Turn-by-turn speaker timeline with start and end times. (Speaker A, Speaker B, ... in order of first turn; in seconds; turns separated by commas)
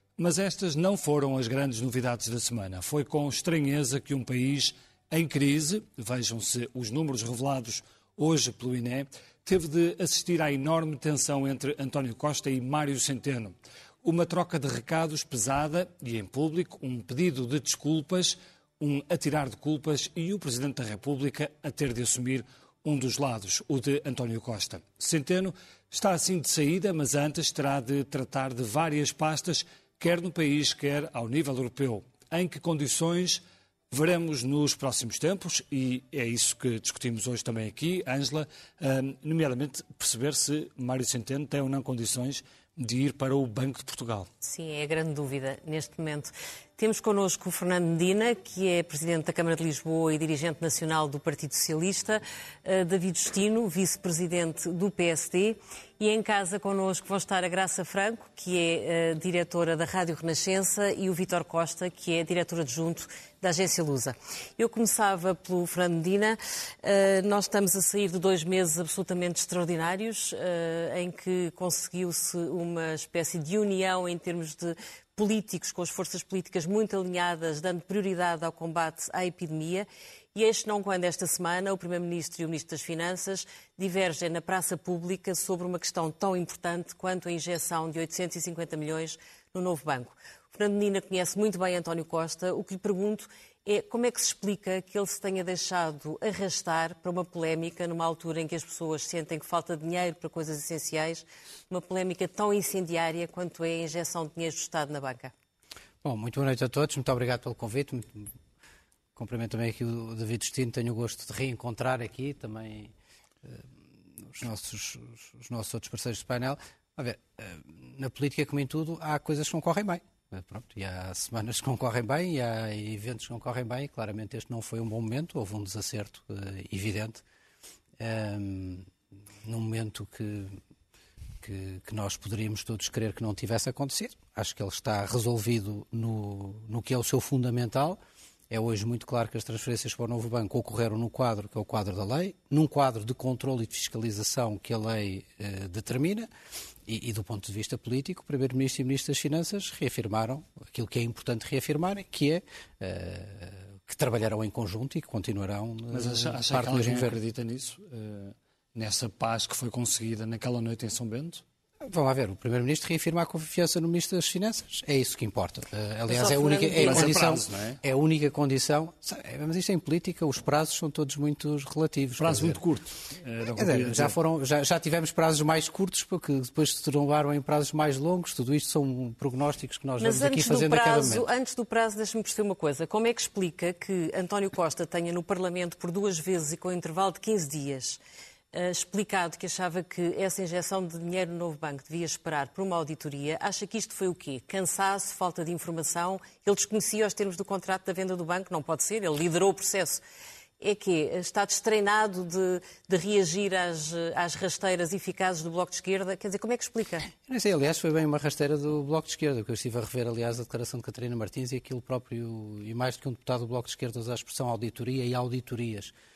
Speaker A: 0.2-44.3, Speaker B: 44.4-105.3, Speaker C: 106.0-108.3, Speaker C: 109.2-112.9, Speaker C: 113.5-127.2, Speaker C: 128.0-128.9, Speaker C: 129.4-130.6, Speaker C: 131.4-138.0, Speaker C: 138.5-146.3, Speaker C: 146.9-157.2, Speaker A: 155.9-161.4, Speaker C: 161.8-172.6, Speaker B: 166.1-167.1, Speaker A: 166.8-167.8, Speaker A: 172.2-174.2, Speaker C: 173.6-181.3, Speaker B: 180.0-188.0, Speaker B: 188.5-200.0, Speaker B: 200.6-207.1, Speaker C: 207.2-215.9